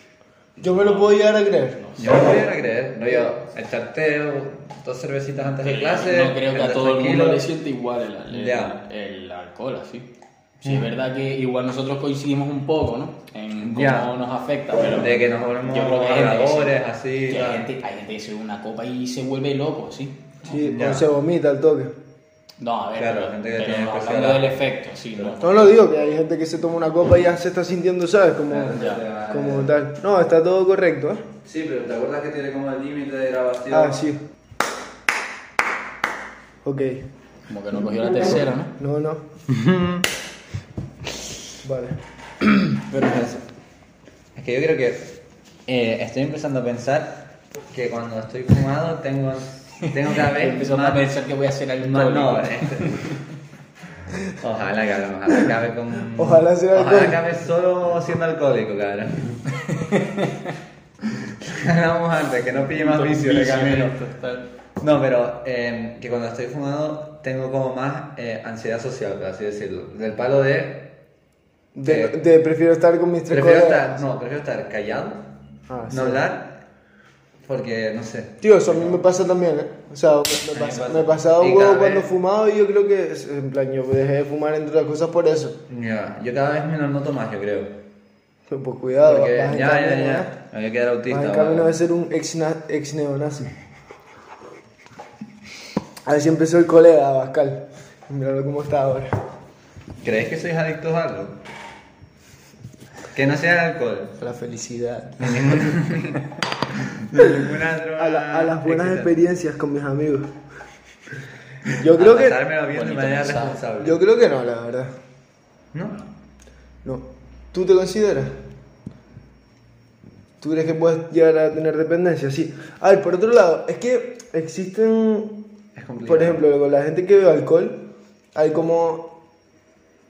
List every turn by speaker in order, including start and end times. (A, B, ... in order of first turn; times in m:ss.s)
0:00.6-0:01.2 A
0:00.6-0:01.9 B
0:01.8-0:02.3 A
0:02.0-0:07.4 C
0:05.6-0:10.1 A
0:08.3-0:08.8 C
0:10.6-0:20.4 A
0:10.6-0:10.9 C
0:13.6-0:14.1 C
0:15.0-0:17.7 C
0:20.4-0:21.9 B
0:20.5-0:21.1 C
0:22.6-0:25.8 A
0:23.0-0:24.5 C
0:25.4-0:31.3 B
0:28.5-0:29.7 C
0:28.7-0:29.0 A
0:31.4-0:34.0 C
0:33.7-0:34.2 B
0:36.6-0:37.1 B
0:37.5-0:38.8 A
0:38.8-0:39.2 B
0:39.5-0:40.1 C
0:41.6-0:42.0 B
0:42.8-0:43.4 C
0:44.4-0:45.1 C
0:45.7-0:51.1 C
0:50.0-0:53.2 A
0:51.8-0:53.1 C
0:54.3-0:59.5 C
0:56.1-0:57.2 B
0:59.5-1:00.5 A
1:01.3-1:04.0 C
1:02.8-1:04.5 A
1:04.8-1:10.8 C
1:11.8-1:14.0 B
1:11.8-1:12.2 C
1:13.3-1:15.3 C
1:15.7-1:16.2 B
1:15.9-1:16.6 C
1:17.4-1:19.0 C
1:18.4-1:25.6 B
1:20.5-1:22.1 C
1:25.7-1:27.7 C
1:28.5-1:30.3 B
1:29.0-1:31.8 C
1:31.1-1:33.5 B
1:36.1-1:39.2 B
1:40.0-1:41.4 C
1:43.1-1:44.2 C
1:44.2-1:45.9 B
1:45.2-1:49.1 C
1:47.2-1:50.3 B
1:51.7-1:54.0 C
1:51.7-1:52.4 B
1:52.7-1:53.6 A
1:53.8-1:54.9 B
1:55.7-1:56.0 C
1:56.8-1:58.3 B
2:00.4-2:05.4 B
2:05.8-2:06.4 C
2:06.0-2:07.8 B
2:08.4-2:09.1 B